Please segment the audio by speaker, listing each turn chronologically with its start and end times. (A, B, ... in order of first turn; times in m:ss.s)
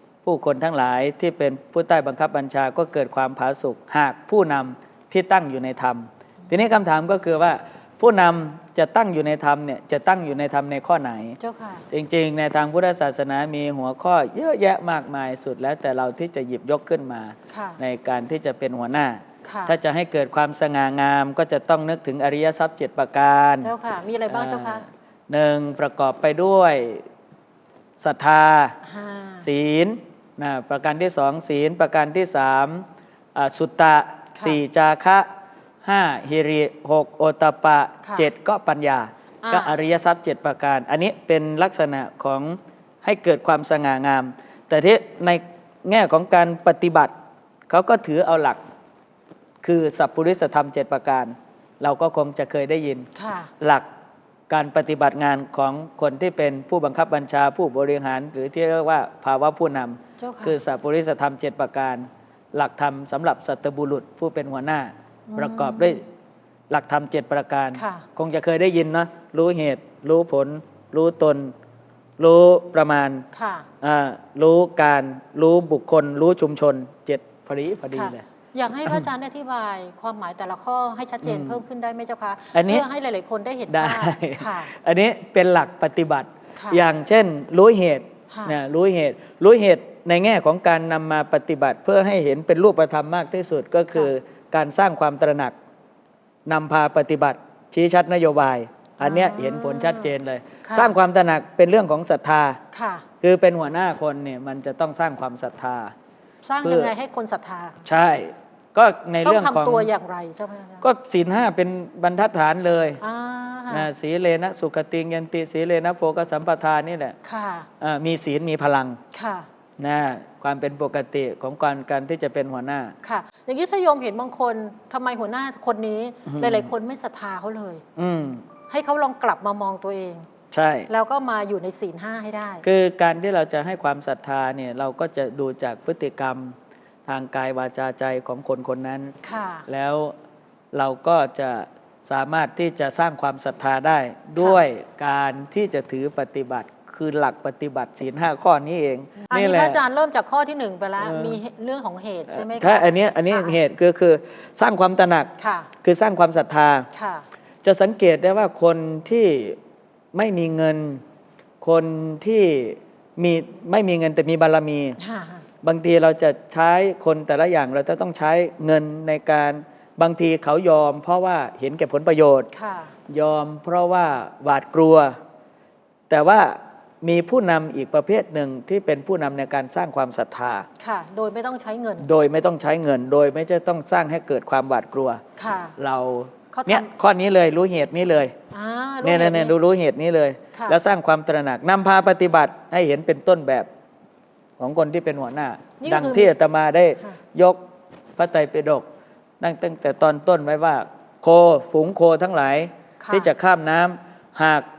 0:00.2-0:11.4 A
0:11.4-0:11.8 B
0:11.9-0:23.7 A
0:17.5-0:17.8 B
0:19.4-0:19.8 B
0:23.6-0:24.8 B
0:24.3-0:27.0 A
0:28.0-0:28.8 A
0:28.8-0:29.4 B
0:29.4-0:35.3 A
0:35.8-0:47.1 A
0:38.0-0:38.3 B
0:39.4-0:39.7 B
0:47.7-0:48.6 A
0:49.6-0:53.1 A
0:53.2-0:53.5 B
0:53.6-0:53.9 A
0:54.5-1:06.0 A
1:00.2-1:00.6 B
1:05.3-1:06.0 B
1:06.7-1:11.5 A
1:07.7-1:08.0 B
1:12.2-1:13.2 A
1:13.3-1:13.7 B
1:13.8-1:18.2 A
1:17.9-1:24.7 B
1:21.2-1:21.6 A
1:22.5-1:22.8 A
1:23.7-1:35.5 A
1:26.6-1:26.8 B
1:28.3-1:28.6 B
1:36.4-1:42.6 A
1:39.0-1:40.1 B
1:40.6-1:40.9 B
1:42.7-1:43.0 B
1:43.2-1:45.9 A
1:46.4-1:47.8 B
1:46.6-1:46.9 A
1:47.8-1:49.9 A
1:49.2-1:50.8 B
1:50.8-1:53.0 A
1:53.0-1:53.9 B
1:53.7-1:57.2 A
1:57.2-1:57.7 B
1:57.8-1:59.0 A
1:59.1-1:59.5 B
1:59.8-2:02.9 A
2:03.0-2:07.8 B
2:06.2-2:06.7 A
2:08.0-2:08.4 A
2:08.7-2:10.3 B
2:10.5-2:10.9 A
2:10.9-2:12.6 B
2:12.6-2:19.1 A
2:19.2-2:19.7 B
2:19.7-2:20.1 A
2:20.7-2:29.8 A
2:29.3-2:33.5 B
2:31.0-2:31.4 A
2:32.3-2:35.3 A
2:35.4-2:35.7 B
2:35.8-2:36.9 A
2:36.9-2:37.2 B
2:37.6-2:39.6 A
2:40.1-2:41.0 A
2:41.6-2:45.0 A
2:45.0-2:45.4 B
2:45.6-2:52.5 A
2:52.5-2:52.9 B
2:53.1-2:55.2 A
2:56.1-3:00.7 A
3:00.8-3:02.1 B
3:02.0-3:05.2 A
3:05.4-3:05.7 B
3:05.8-3:08.3 A
3:06.5-3:06.9 B
3:08.5-3:09.5 B
3:09.0-3:13.7 A
3:14.6-3:17.6 A
3:15.8-3:16.3 B
3:18.2-3:18.9 A
3:19.4-3:24.6 A
3:23.0-3:23.3 B